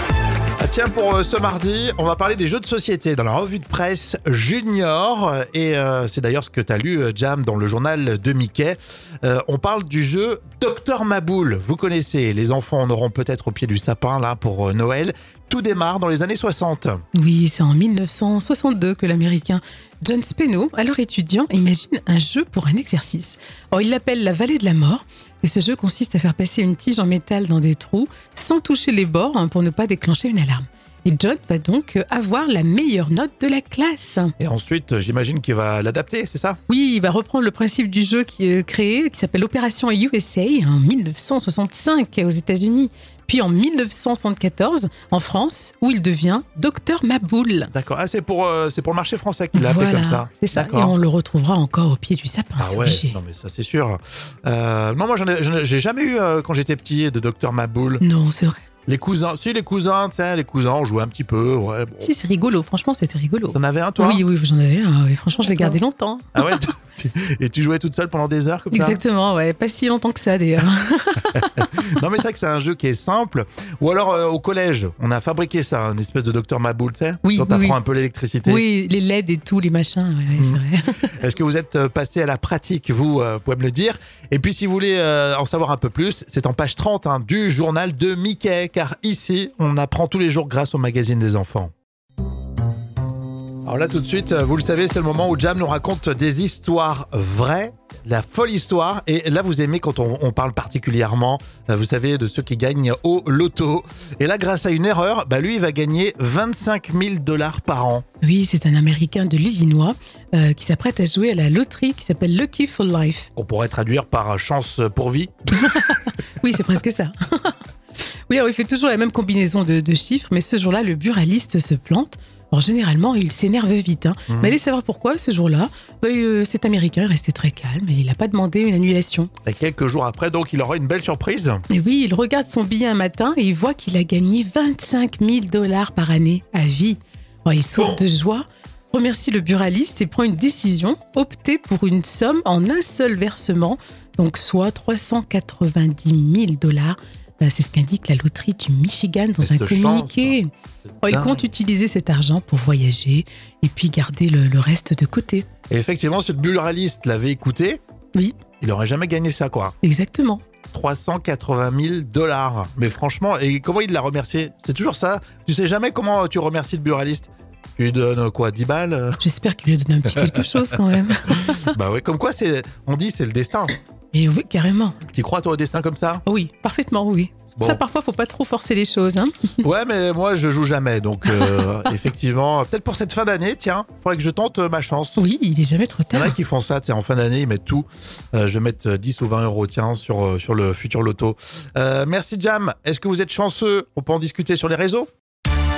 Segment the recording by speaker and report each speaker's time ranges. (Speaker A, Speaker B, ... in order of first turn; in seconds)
Speaker A: 0.6-17.0, 34.4-36.6, 47.7-51.0, 52.6-58.0, 58.9-62.1, 63.5-64.2, 65.4-65.8, 66.3-69.0, 71.3-78.6, 80.4-91.7, 93.6-108.0, 113.3-115.9, 124.3-124.6, 129.4-131.6, 137.8-138.0, 149.4-150.4, 151.0-151.4, 155.7-157.8, 158.6-159.8, 160.7-169.2, 171.3-173.7, 175.1-176.2, 179.6-185.2, 186.1-195.1
Speaker B: 17.1-34.3, 36.7-47.7, 49.5-53.2, 58.0-58.6, 62.0-66.3, 68.7-71.4, 77.2-77.8, 78.4-81.1, 108.2-113.3, 116.3-117.6, 118.3-129.3, 131.7-150.5, 151.0-155.5, 159.8-160.4, 169.2-171.4, 174.1-175.0, 176.2-179.6, 185.2-186.3